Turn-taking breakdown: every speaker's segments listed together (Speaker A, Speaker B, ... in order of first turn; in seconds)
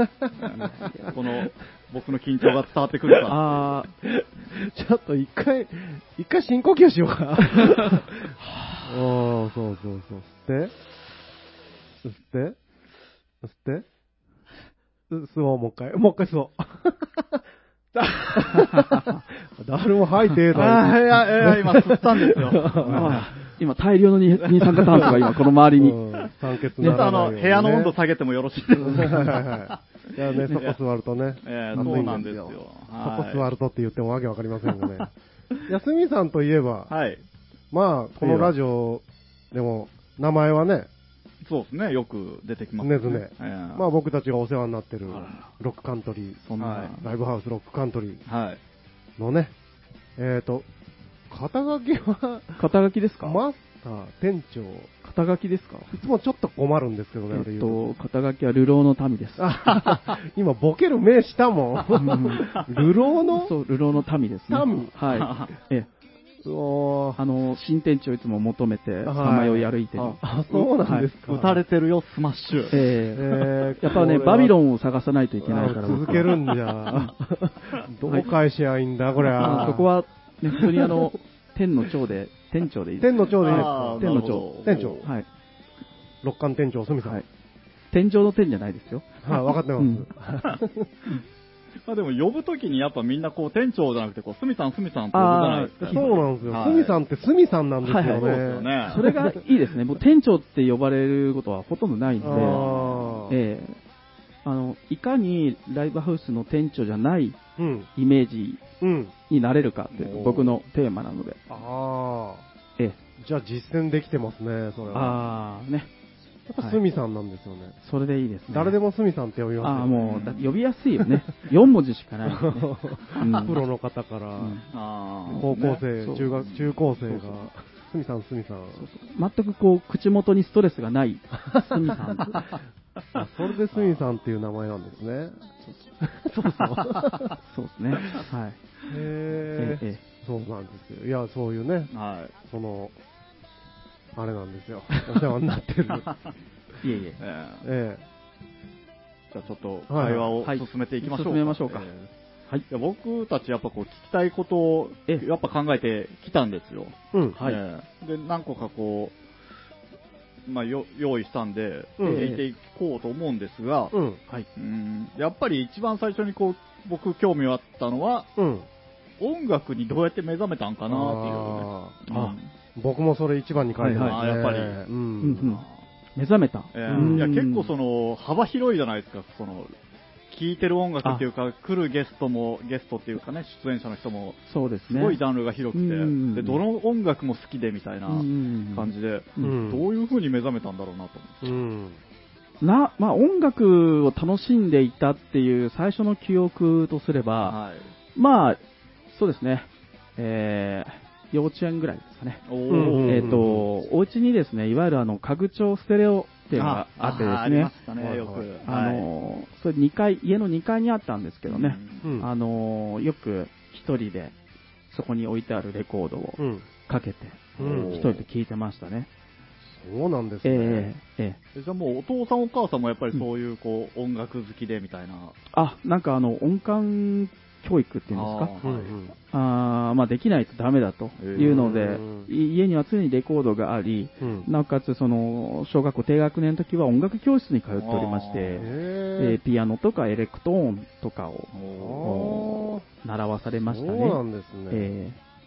Speaker A: 0.3-3.7, 20.5-23.2, 24.6-25.2, 26.8-29.8, 31.4-33.5, 34.8-35.0, 36.9-37.2, 38.2-38.5, 41.4-43.8, 45.1-45.5, 46.5-47.0, 48.3-48.6, 65.1-65.5, 71.2-72.8, 79.4-79.8, 83.4-85.1, 91.9-97.0, 98.0-99.0, 102.2-103.2, 109.9-110.6, 120.0-120.5, 124.7-125.8, 126.4-126.8, 133.2-134.0, 136.3-137.3, 141.9-142.3, 145.9-146.3, 147.2-147.7, 149.3-152.1, 152.7-159.2, 160.5-164.0, 164.6-168.3, 169.2-172.4, 174.0-174.8, 175.4-175.8, 176.7-179.7, 180.3-191.6, 197.4-197.9, 202.5-203.5, 206.5-209.1, 211.5-212.1, 217.6-218.2, 221.6-225.4, 228.1-228.9, 231.2-231.6, 237.8-238.7, 241.5-242.1
Speaker B: 0.7-1.1, 3.3-3.9, 22.9-26.0, 26.8-27.1, 28.9-29.2, 31.8-32.1, 52.6-53.4, 55.0-55.9, 57.3-59.5, 61.9-62.6, 63.3-65.9, 67.2-70.2, 72.7-76.4, 79.4-84.5, 87.9-90.1, 95.1-96.2, 97.8-98.3, 98.8-102.6, 103.3-103.8, 104.5-107.4, 108.0-108.6, 109.3-111.4, 114.9-115.9, 117.8-118.8, 119.6-123.6, 124.4-124.7, 125.3-126.3, 128.8-132.4, 137.4-138.6, 139.6-140.0, 146.8-147.2, 150.4-151.9, 162.0-162.4, 172.1-172.4, 173.8-174.2, 175.2-175.6, 176.2-177.7, 184.5-185.2, 185.7-186.6, 188.1-189.6, 192.6-197.6, 198.2-198.6, 199.1-207.7, 208.7-214.3, 214.9-219.1, 220.4-221.4, 225.5-228.5, 229.3-238.7, 239.2-241.5, 242.0-245.2
Speaker C: 4.0-10.8, 12.0-12.6, 13.4-13.8, 15.1-17.4, 18.2-23.3, 24.8-27.9, 28.8-35.1, 35.7-36.9, 37.7-40.9, 42.8-48.2, 49.2-49.5, 50.2-50.7, 51.3-52.6, 53.2-54.9, 55.9-57.8, 59.4-63.5, 64.5-64.9, 66.4-67.2, 69.0-71.6, 73.1-74.5, 75.4-79.9, 80.8-81.0, 83.0-85.0, 86.2-87.2, 89.2-90.9, 95.9-99.4, 102.2-103.4, 107.6-107.9, 108.8-109.1, 111.5-112.5, 113.2-115.3, 116.5-117.8, 118.5-120.2, 122.3-124.6, 125.3-128.9, 131.7-132.0, 133.1-137.3, 138.9-141.9, 142.5-142.9, 144.2-146.1, 147.6-148.0, 149.9-150.3, 157.1-157.4, 162.0-162.3, 163.9-164.2, 168.4-168.7, 170.9-172.0, 172.8-175.4, 176.9-177.2, 189.4-189.9, 191.4-192.0, 202.7-203.7, 208.0-208.5, 212.0-212.3, 216.4-216.7, 217.6-218.0, 219.7-220.9, 228.6-229.2, 231.3-232.3, 234.2-234.5, 238.6-239.4, 241.7-242.8, 243.7-244.9